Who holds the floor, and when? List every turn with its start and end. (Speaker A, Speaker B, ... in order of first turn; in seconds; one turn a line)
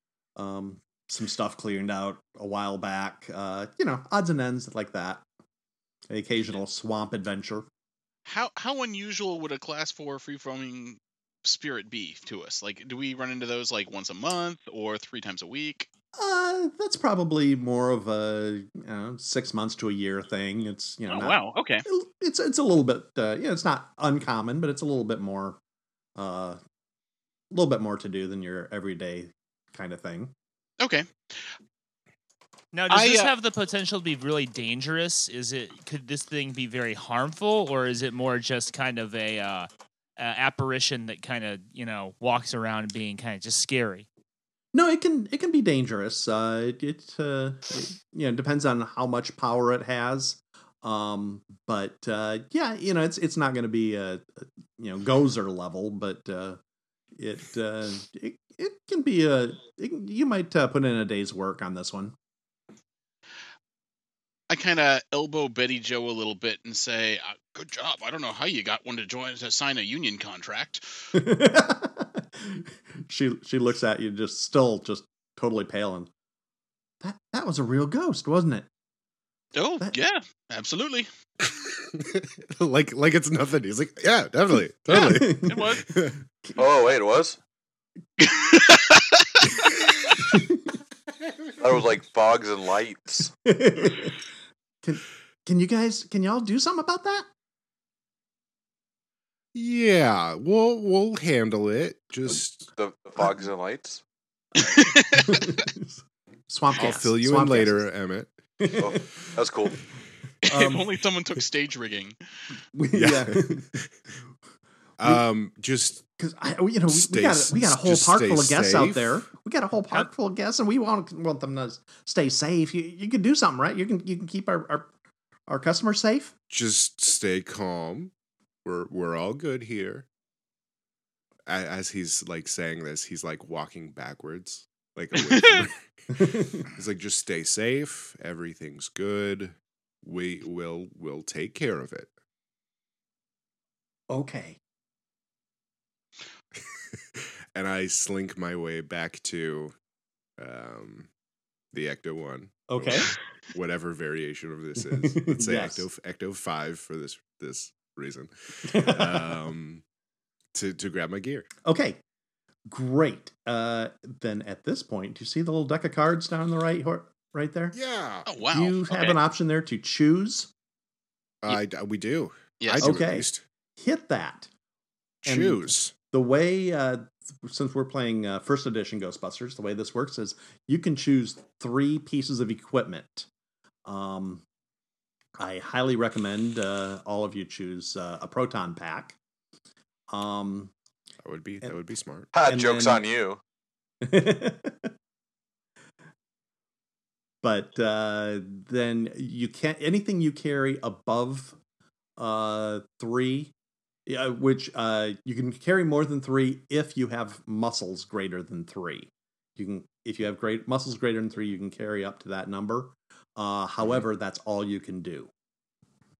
Speaker A: 0.3-5.2
Speaker A: 6.1-7.7
Speaker B: 8.2-15.9
Speaker A: 16.1-25.6
Speaker B: 21.1-21.8
Speaker A: 26.1-26.6
Speaker A: 27.5-30.3
Speaker B: 30.8-31.1
Speaker C: 32.7-44.1
Speaker B: 32.9-33.3
Speaker A: 44.7-56.6
Speaker A: 57.2-62.1
Speaker B: 64.5-70.8
Speaker A: 71.1-76.1
Speaker A: 77.0-78.7
Speaker B: 79.5-81.1
Speaker D: 81.8-86.2
Speaker A: 84.9-86.5
Speaker B: 84.9-85.9
Speaker E: 86.6-87.4
Speaker B: 88.2-89.5
Speaker A: 90.2-90.6
Speaker E: 91.6-93.3
Speaker A: 93.4-94.2
Speaker A: 94.8-97.3
Speaker D: 99.5-102.7
Speaker E: 102.7-104.0
Speaker B: 104.6-105.5
Speaker A: 104.7-107.8
Speaker D: 106.7-108.3
Speaker A: 108.6-109.3
Speaker E: 108.8-109.8
Speaker B: 110.4-112.2
Speaker A: 110.5-110.9
Speaker A: 112.7-113.7
Speaker D: 112.9-113.9
Speaker D: 115.0-116.0
Speaker A: 116.2-124.9
Speaker D: 116.9-119.2
Speaker A: 125.5-126.3
Speaker D: 126.5-128.1
Speaker D: 128.6-130.1
Speaker D: 131.5-142.1
Speaker B: 135.1-135.7
Speaker A: 136.1-136.7
Speaker A: 144.1-144.6
Speaker D: 146.7-149.7
Speaker D: 150.4-151.1
Speaker D: 151.7-159.8
Speaker A: 152.7-153.1
Speaker A: 154.8-155.8
Speaker A: 158.7-159.3
Speaker D: 160.5-161.5
Speaker A: 161.6-162.0
Speaker A: 162.7-167.8
Speaker D: 167.7-168.3
Speaker B: 168.3-169.2
Speaker A: 168.5-170.5
Speaker D: 171.4-173.4
Speaker B: 172.6-173.0
Speaker A: 172.8-174.5
Speaker D: 175.2-175.9
Speaker A: 175.2-183.3
Speaker A: 183.8-184.4
Speaker A: 185.4-189.2
Speaker A: 190.1-190.7
Speaker D: 191.2-192.3
Speaker E: 192.3-193.4
Speaker A: 192.4-193.0
Speaker A: 194.0-194.9
Speaker A: 197.4-201.6
Speaker A: 202.2-203.5
Speaker A: 204.1-215.3